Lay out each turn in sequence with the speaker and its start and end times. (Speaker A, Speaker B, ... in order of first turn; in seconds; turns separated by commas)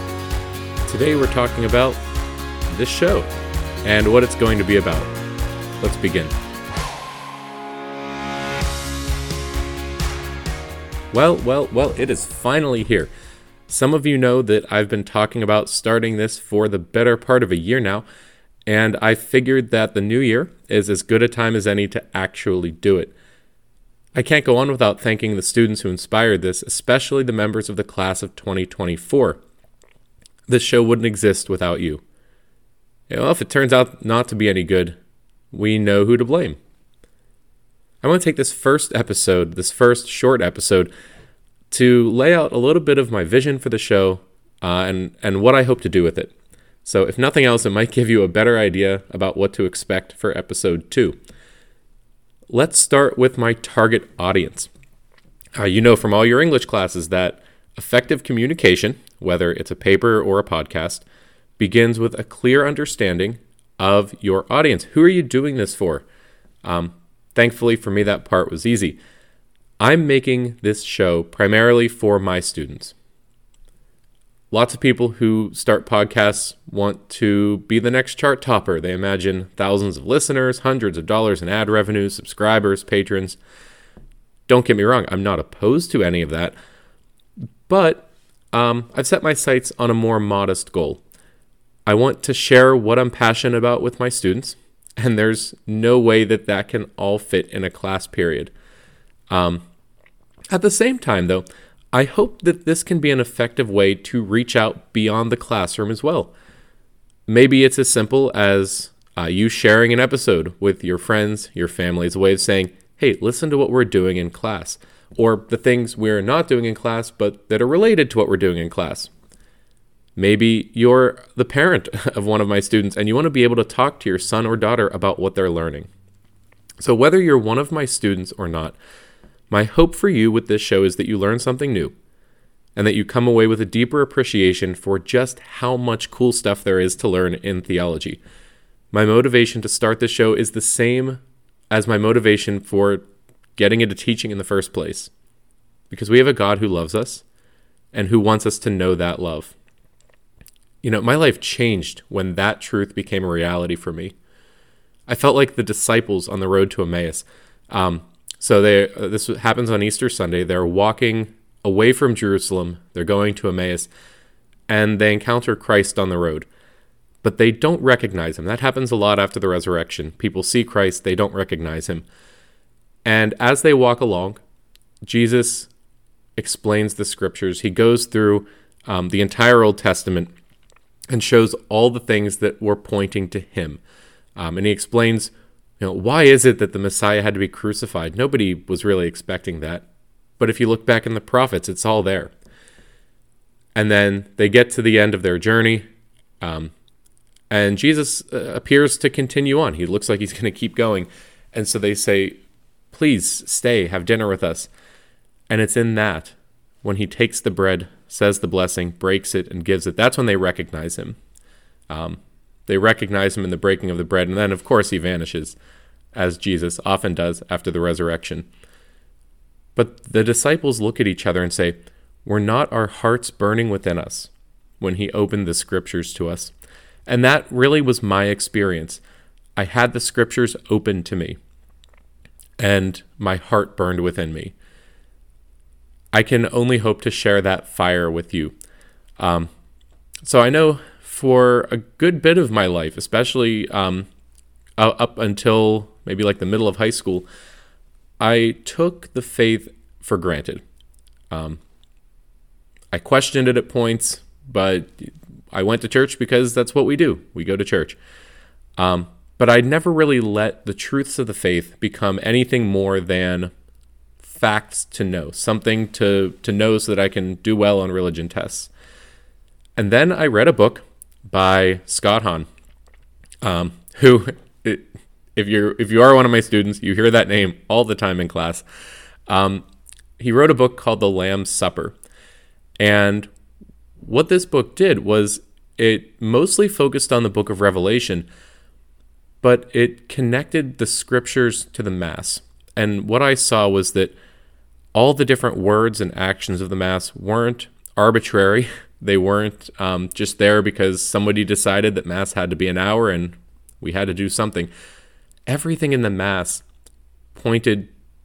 Speaker A: 0.9-2.0, Speaker A: 2.7-3.3, Speaker A: 3.8-5.1, Speaker A: 5.8-6.3, Speaker A: 11.1-13.1, Speaker A: 13.7-18.1, Speaker A: 18.7-23.1, Speaker A: 24.1-29.4, Speaker A: 30.5-32.0, Speaker A: 33.1-35.0, Speaker A: 35.5-36.6, Speaker A: 38.0-40.9, Speaker A: 41.7-46.3, Speaker A: 46.8-51.2, Speaker A: 52.5-54.7, Speaker A: 55.6-61.0, Speaker A: 61.6-66.1, Speaker A: 66.6-69.0, Speaker A: 69.8-73.0, Speaker A: 74.5-83.4, Speaker A: 84.5-86.5, Speaker A: 87.7-91.0, Speaker A: 91.9-98.5, Speaker A: 99.3-99.6, Speaker A: 100.5-106.3, Speaker A: 107.3-119.1, Speaker A: 120.2-125.9, Speaker A: 126.8-128.8, Speaker A: 129.5-131.9, Speaker A: 132.8-138.2, Speaker A: 138.9-143.1, Speaker A: 143.6-145.1, Speaker A: 145.9-147.2, Speaker A: 147.9-149.6, Speaker A: 150.8-154.2, Speaker A: 155.1-163.9, Speaker A: 164.7-166.5, Speaker A: 167.2-172.1, Speaker A: 173.1-174.4, Speaker A: 175.0-175.7, Speaker A: 176.4-180.3, Speaker A: 181.1-183.8, Speaker A: 184.4-189.9, Speaker A: 190.4-192.3, Speaker A: 193.8-195.8, Speaker A: 196.4-196.7, Speaker A: 197.5-202.4, Speaker A: 202.9-204.7, Speaker A: 205.5-211.2, Speaker A: 211.9-215.6, Speaker A: 216.1-218.5, Speaker A: 219.8-226.5, Speaker A: 227.1-229.0, Speaker A: 229.6-231.4, Speaker A: 232.6-234.5, Speaker A: 236.1-238.6, Speaker A: 239.2-239.5, Speaker A: 240.2-244.1, Speaker A: 244.8-247.3, Speaker A: 248.2-250.6, Speaker A: 251.3-251.6, Speaker A: 252.9-258.0, Speaker A: 258.8-263.5, Speaker A: 264.2-268.7, Speaker A: 269.8-272.5, Speaker A: 273.4-278.6, Speaker A: 279.3-279.6, Speaker A: 280.2-281.9, Speaker A: 282.8-283.3, Speaker A: 284.0-288.3, Speaker A: 289.4-294.1, Speaker A: 294.9-304.7, Speaker A: 305.5-306.6, Speaker A: 307.4-307.9